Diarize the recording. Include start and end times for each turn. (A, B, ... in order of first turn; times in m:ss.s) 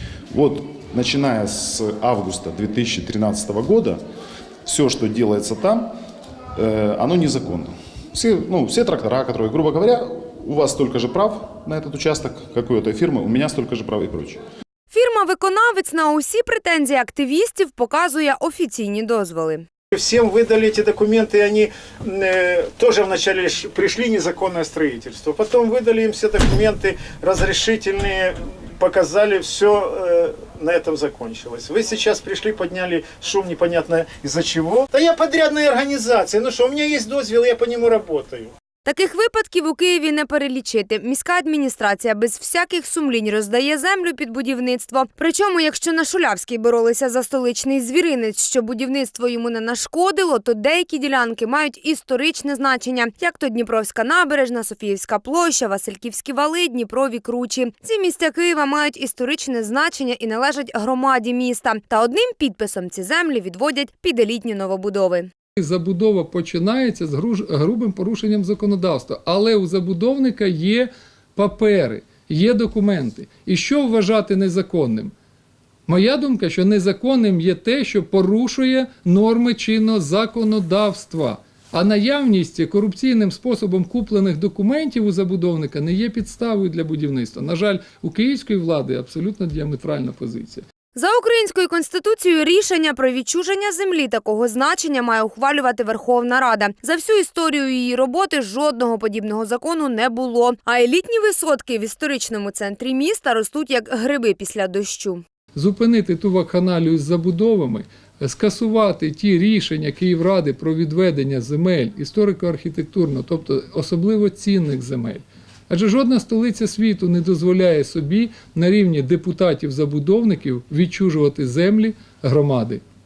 0:00.3-0:04.0 A
0:04.7-0:05.9 A
0:06.6-0:14.4 A
0:14.9-0:19.6 B
0:19.9-0:38.5 C
0:38.8-1:05.3 B
1:05.6-1:15.1 D
1:15.9-1:30.6 D
1:30.9-1:45.2 B
1:45.6-2:02.8 D